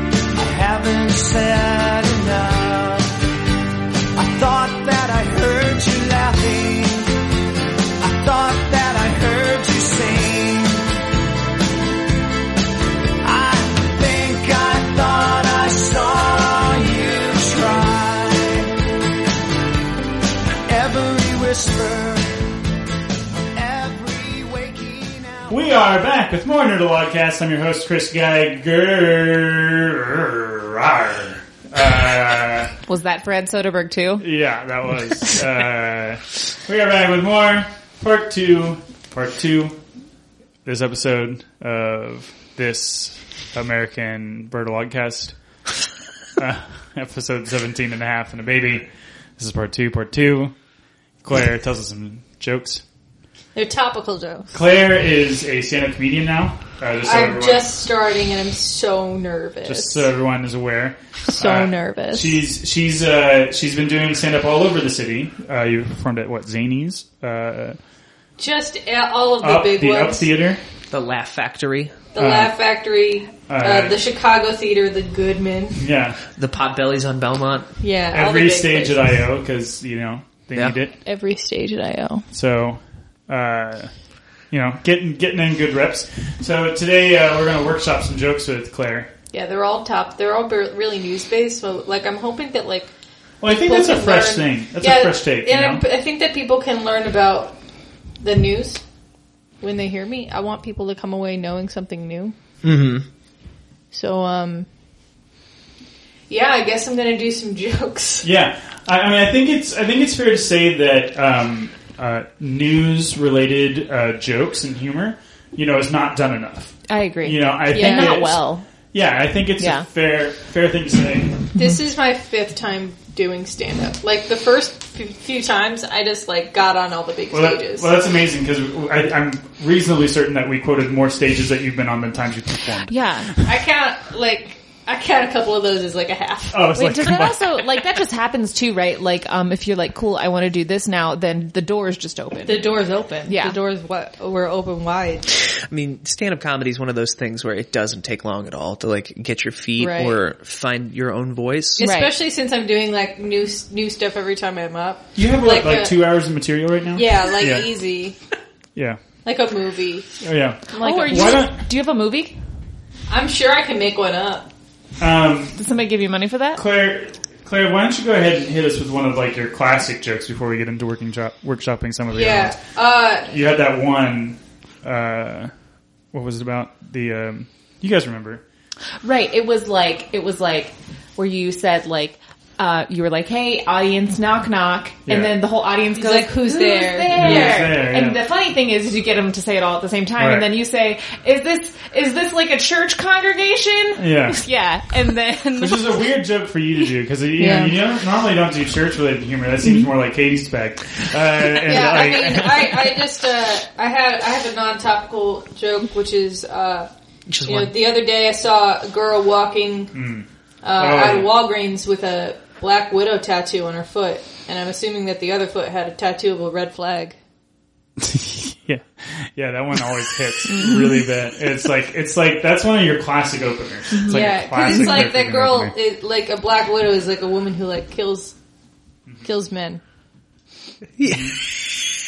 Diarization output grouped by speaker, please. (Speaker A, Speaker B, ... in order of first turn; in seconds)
Speaker A: 0.3-3.1, 4.2-7.1, 8.0-10.9, 13.2-18.7, 20.7-22.3, 23.6-25.7
Speaker B: 25.5-32.7, 34.2-39.8, 40.6-45.4, 46.4-50.5, 51.2-52.8, 54.5-57.7, 59.6-67.8, 69.4-70.6, 72.2-72.6, 73.5-74.0, 75.8-76.2, 78.1-81.0, 82.3-83.9, 84.5-89.1, 93.4-95.8, 108.2-121.5, 127.3-133.4, 136.5-137.6, 155.2-157.7, 158.8-159.0, 160.2-161.6, 165.0-165.6, 166.6-172.6, 173.3-175.5, 176.1-178.4, 185.1-185.3, 187.1-188.2, 190.2-190.5, 194.0-194.4, 195.6-202.9, 209.9-211.3, 218.0-225.7, 231.1-231.4
Speaker C: 32.9-34.3, 116.9-118.7, 119.6-119.9, 132.9-133.3, 136.8-142.7, 143.3-143.6, 151.8-152.1, 160.8-162.4, 165.6-166.6, 179.0-196.0, 220.5-221.1, 223.9-225.1
Speaker D: 53.5-54.5, 57.0-60.1, 61.3-62.5, 68.4-70.3, 72.1-75.8, 77.8-79.0, 81.0-82.2, 89.3-92.9, 93.5-97.6, 98.2-98.8, 99.6-102.3, 103.9-104.7, 106.3-108.3, 117.7-118.2, 121.6-127.9, 133.4-136.8, 142.5-145.3, 149.8-150.2, 151.8-156.0, 156.9-158.2, 159.2-160.1, 160.7-161.4, 163.1-164.5, 172.1-173.3, 185.9-187.7, 197.4-197.8, 201.7-206.9, 207.4-209.9, 210.6-217.2, 224.1-228.4, 229.2-229.8
Speaker E: 70.9-72.0, 76.3-77.7, 102.6-103.1, 145.6-151.8, 207.3-207.8, 231.0-231.5